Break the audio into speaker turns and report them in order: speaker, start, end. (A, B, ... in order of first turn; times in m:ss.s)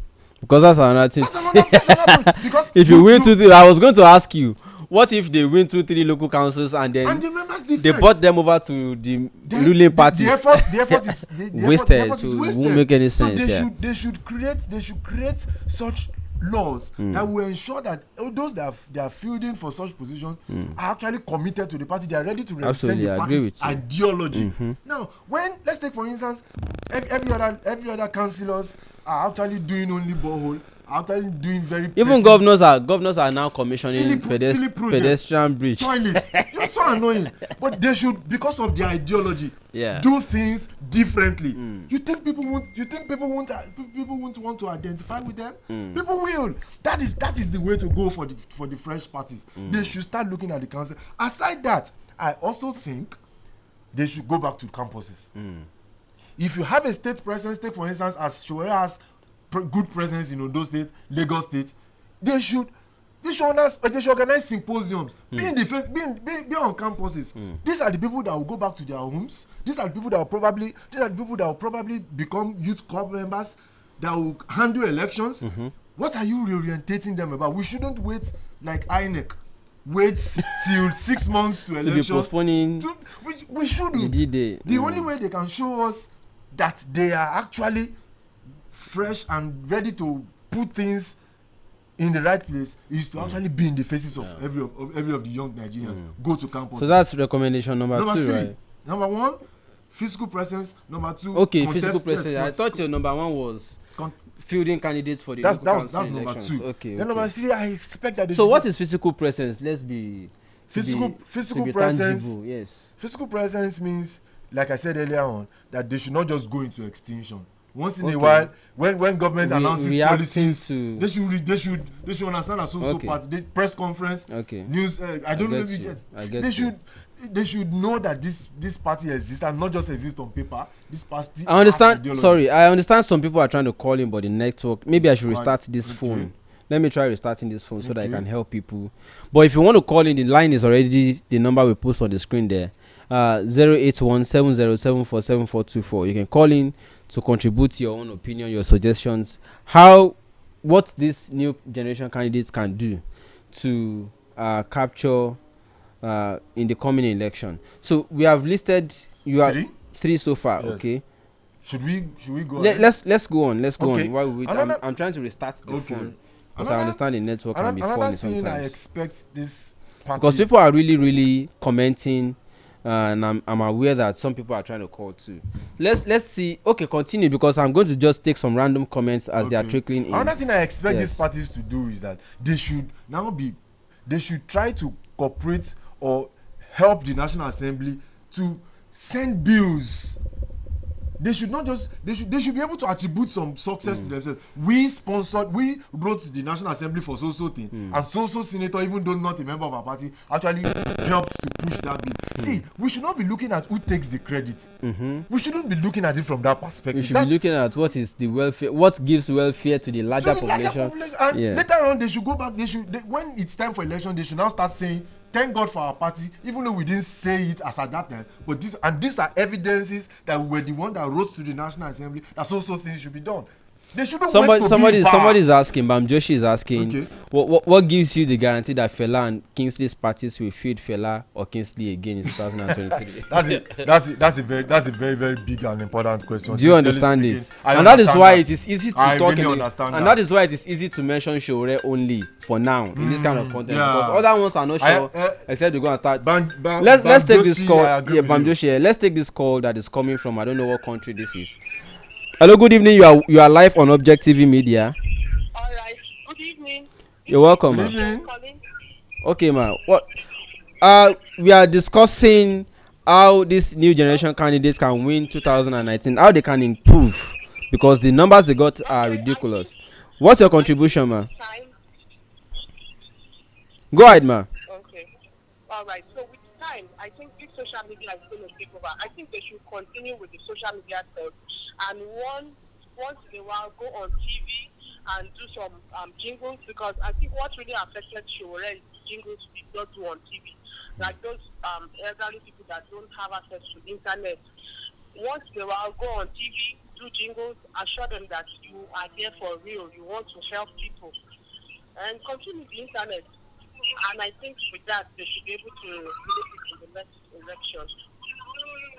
0:00.4-0:07.2 A
0:01.2-0:03.4 B
0:07.0-0:08.1 B
0:07.8-0:13.7 A
0:09.5-0:32.4 B
0:17.0-0:17.3 A
0:20.5-0:20.8 A
0:22.6-0:23.8 A
0:24.3-0:24.8 A
0:32.0-0:36.8 A
0:33.8-0:53.2 B
0:39.7-0:40.1 A
0:41.6-0:41.9 A
0:45.7-0:46.0 A
0:49.6-0:49.9 A
0:53.9-0:55.3 B
0:55.4-0:55.7 A
0:56.4-0:59.0 B
0:59.5-1:28.0 B
1:15.4-1:15.7 A
1:21.8-1:22.9 A
1:23.9-1:25.1 A
1:28.7-1:31.2 B
1:32.0-1:37.0 B
1:35.9-1:36.1 A
1:36.8-1:38.6 A
1:37.9-1:39.4 B
1:39.9-1:42.8 B
1:41.3-1:43.8 A
1:44.4-1:47.3 A
1:45.4-1:48.7 B
1:48.3-1:52.9 A
1:50.7-1:52.3 B
1:53.0-2:12.4 B
1:58.0-1:58.5 A
1:59.4-2:01.1 A
2:02.8-2:03.2 A
2:04.3-2:04.7 A
2:05.3-2:06.7 A
2:11.5-2:33.0 A
2:14.9-2:16.3 B
2:17.8-2:18.2 B
2:33.5-2:35.4 A
2:36.0-2:41.0 A
2:39.3-2:39.8 B
2:40.6-2:40.9 B
2:41.6-2:42.9 B
2:42.6-2:48.8 A
2:43.8-2:44.8 B
2:45.7-2:47.0 B
2:47.5-2:50.5 B
2:50.2-3:00.4 A
2:59.4-3:10.2 B
3:00.9-3:01.2 A
3:11.2-3:24.7 B
3:24.8-3:25.3 A
3:25.3-3:27.3 B
3:26.9-3:31.6 A
3:30.2-3:45.4 B
3:44.3-3:53.6 A
3:46.8-3:47.1 B
3:53.3-4:00.2 B
3:56.5-4:06.3 A
4:03.0-4:04.3 B
4:04.8-4:05.5 B
4:06.2-4:08.6 B
4:06.8-4:11.6 A
4:12.4-4:15.0 A
4:15.5-4:18.6 C
4:17.3-4:17.9 A
4:17.7-4:18.3 B
4:19.2-4:20.1 A
4:20.8-4:31.3 A
4:28.8-4:31.7 C
4:33.9-4:34.5 A
4:34.7-4:35.1 C
4:35.7-4:54.4 C
4:55.1-5:01.2 C
5:02.0-5:03.3 C
5:03.9-5:07.9 C